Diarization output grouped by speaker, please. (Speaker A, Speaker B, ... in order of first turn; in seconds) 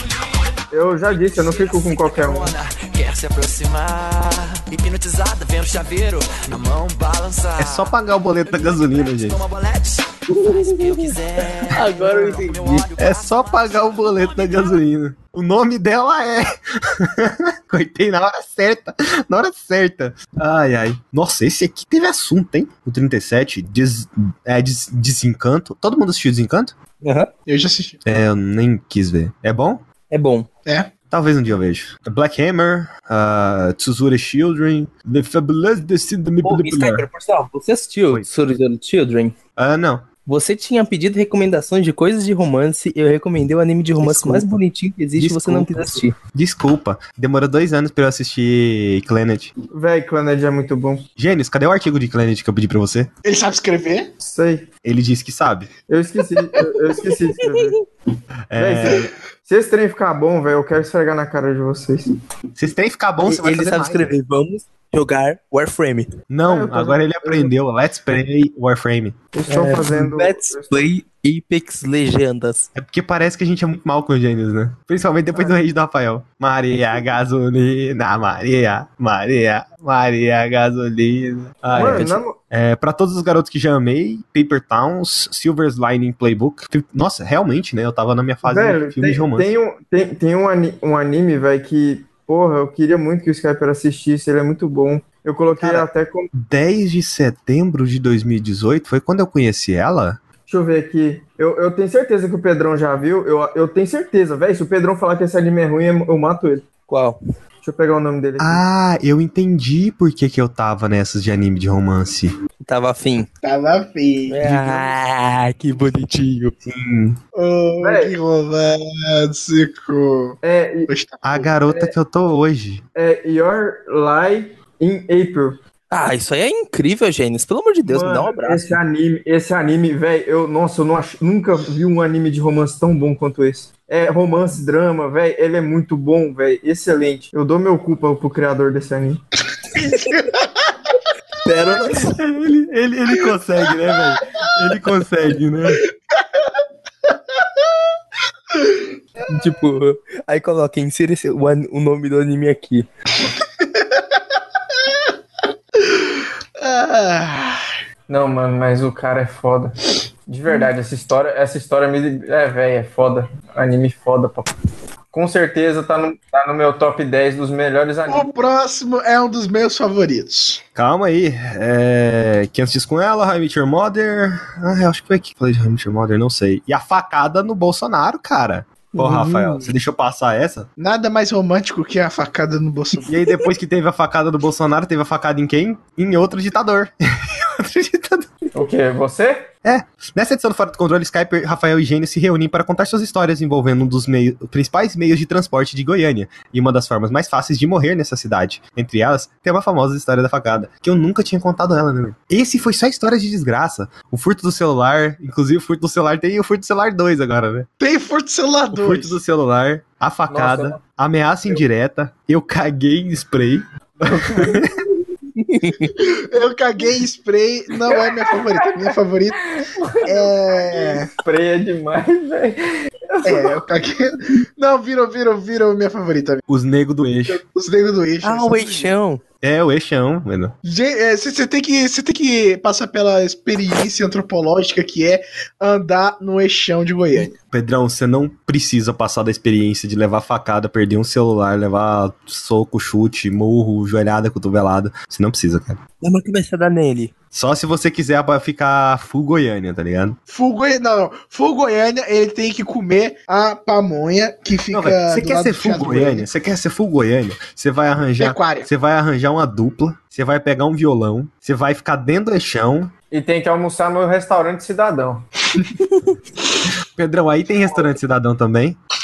Speaker A: 0.7-2.5, 49.7-51.1, 54.2-54.7, 55.9-57.8, 58.6-62.1, 66.5-67.5, 69.3-70.8, 81.7-82.4, 88.5-96.3, 100.5-106.7, 107.6-108.6, 117.8-118.2, 120.4-121.9, 123.0-125.6, 127.9-139.2, 158.1-164.5, 165.1-168.3, 188.5-189.5, 210.3-210.8, 214.1-214.6, 219.6-223.6, 263.1-265.3
Speaker B: 1.1-7.9, 8.4-14.8
Speaker C: 7.6-9.4, 13.0-26.7, 28.1-29.8, 31.1-37.1, 39.6-40.1, 44.0-44.5, 45.2-49.5, 51.2-53.1, 54.8-55.7, 58.5-59.1, 62.5-64.1, 66.3-69.2, 72.8-89.5, 95.6-100.2, 108.4-112.3, 116.6-117.2, 121.2-122.8, 142.0-145.8, 170.8-180.7, 183.1-188.3, 189.6-207.7, 208.7-214.8, 226.5-227.4, 229.4-230.5, 237.5-245.8, 247.3-250.2, 254.7-262.9, 267.0-268.8
Speaker D: 10.3-11.1, 11.7-12.9, 27.0-27.3, 30.1-30.5, 36.4-39.4, 40.3-46.1, 63.2-66.1, 69.5-72.7, 106.9-107.2, 112.7-113.3, 114.3-116.5, 125.9-128.8, 139.8-140.2, 141.4-142.2, 149.3-152.9, 179.0-179.2, 215.4-215.9, 228.2-229.2, 246.0-247.1
Speaker E: 27.5-28.0, 30.7-30.9, 53.2-54.1, 113.4-114.9, 117.3-121.2, 139.8-141.0, 148.6-148.9, 153.6-153.9, 155.8-157.7, 168.1-170.6, 180.8-183.1, 207.8-209.2, 216.0-221.1, 223.2-226.4, 227.4-228.9, 230.6-237.3, 250.3-256.3, 258.2-258.7